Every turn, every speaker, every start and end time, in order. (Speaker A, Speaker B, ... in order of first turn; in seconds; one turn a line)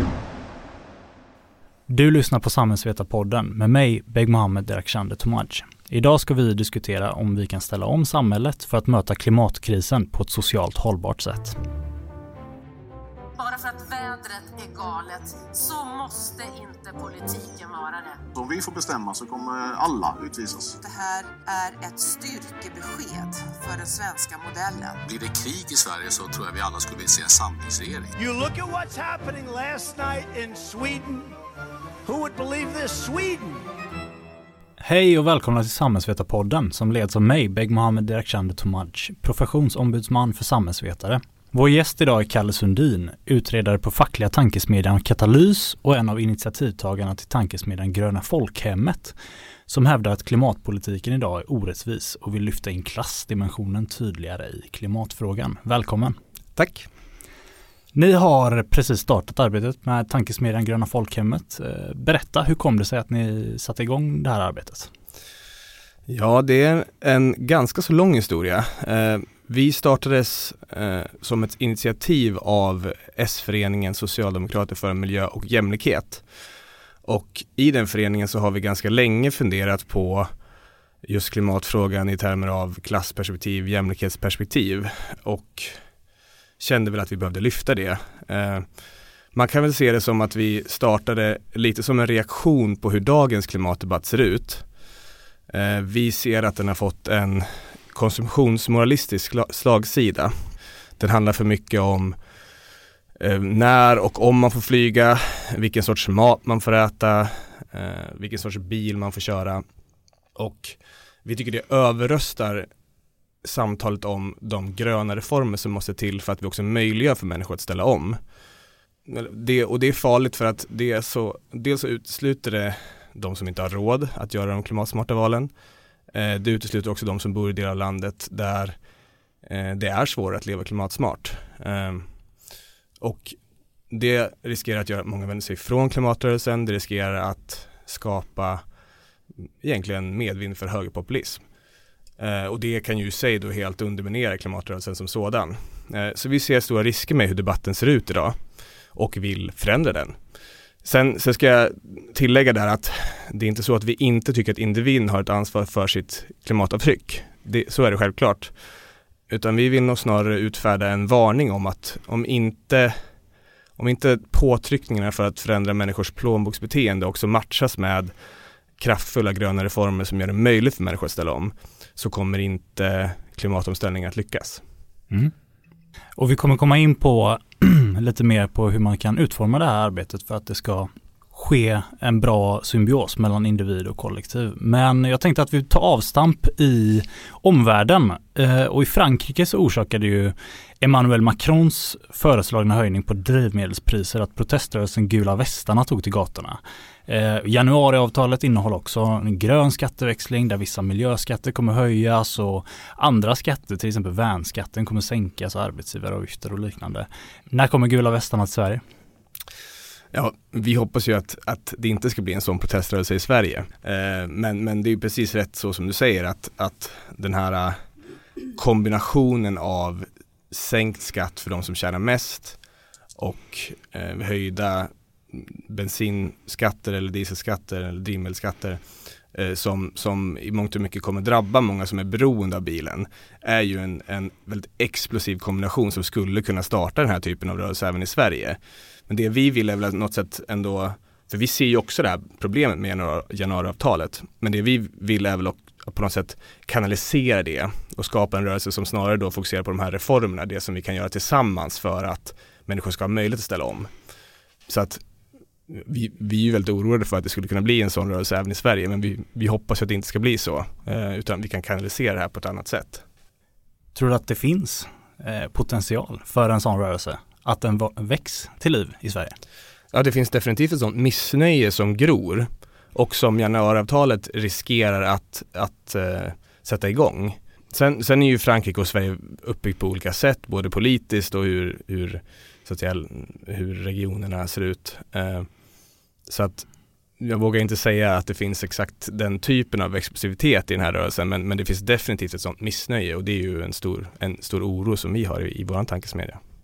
Speaker A: 1.9-11.6
Speaker B: 13.4-18.2
Speaker C: 18.4-20.8
Speaker B: 20.8-25.0
Speaker D: 25.1-28.1
Speaker E: 28.2-31.4
Speaker E: 32.1-33.7
Speaker A: 34.8-49.2
Speaker A: 49.7-56.2
Speaker F: 56.6-56.9
Speaker A: 57.9-64.9
Speaker F: 66.1-76.2
Speaker F: 77.1-80.3
Speaker F: 81.0-85.8
Speaker F: 86.6-88.7
Speaker F: 89.3-94.7
Speaker F: 95.5-100.3
Speaker F: 101.0-102.2
Speaker F: 103.2-109.6
Speaker F: 110.4-112.7
Speaker F: 113.4-118.2
Speaker F: 119.1-125.5
Speaker F: 126.1-128.8
Speaker F: 129.4-132.1
Speaker F: 133.0-133.4
Speaker F: 133.9-138.6
Speaker F: 139.6-141.4
Speaker F: 142.2-148.4
Speaker F: 148.9-150.2
Speaker F: 150.8-158.5
Speaker F: 159.3-163.0
Speaker F: 163.8-168.1
Speaker F: 168.8-174.6
Speaker A: 176.2-208.8
Speaker F: 210.1-217.8
Speaker F: 218.6-222.6
Speaker F: 223.2-228.8
Speaker F: 229.3-253.9
Speaker F: 254.7-255.0
Speaker F: 255.7-263.0
Speaker A: 263.9-269.4
Speaker F: 269.9-285.5
Speaker F: 286.3-286.7
Speaker F: 287.2-296.4